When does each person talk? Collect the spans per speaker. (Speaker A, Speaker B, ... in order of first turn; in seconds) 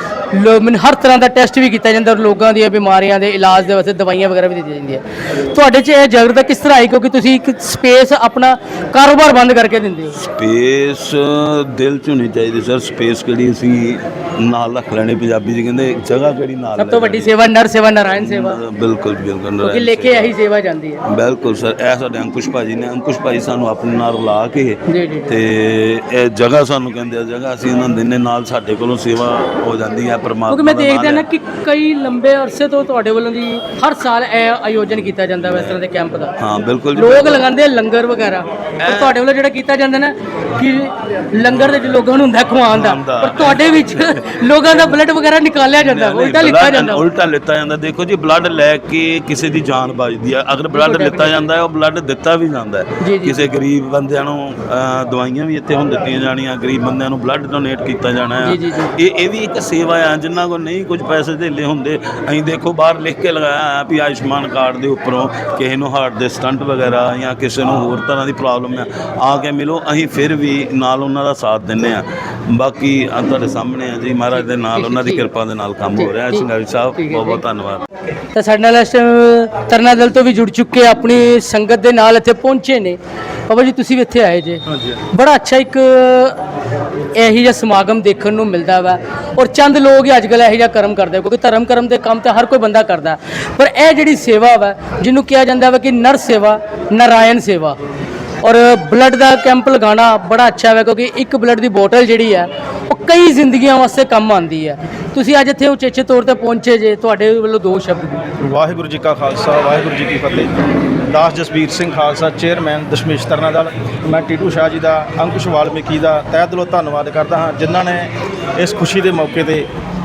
Speaker A: 0.3-10.2, 16.8-18.6, 19.6-21.0, 24.9-25.4, 30.5-36.3, 37.0-47.0, 50.7-51.4, 53.0-53.4, 58.4-58.9, 74.3-75.3, 75.9-77.4, 78.3-83.0, 83.5-86.4, 87.2-97.8, 98.4-108.2
Speaker B: 10.4-17.4, 18.1-20.3, 21.1-31.2, 35.4-35.8, 36.4-37.4, 38.8-39.2, 41.5-41.9, 42.7-45.0, 45.8-77.8
Speaker C: 108.4-110.5, 111.1-119.7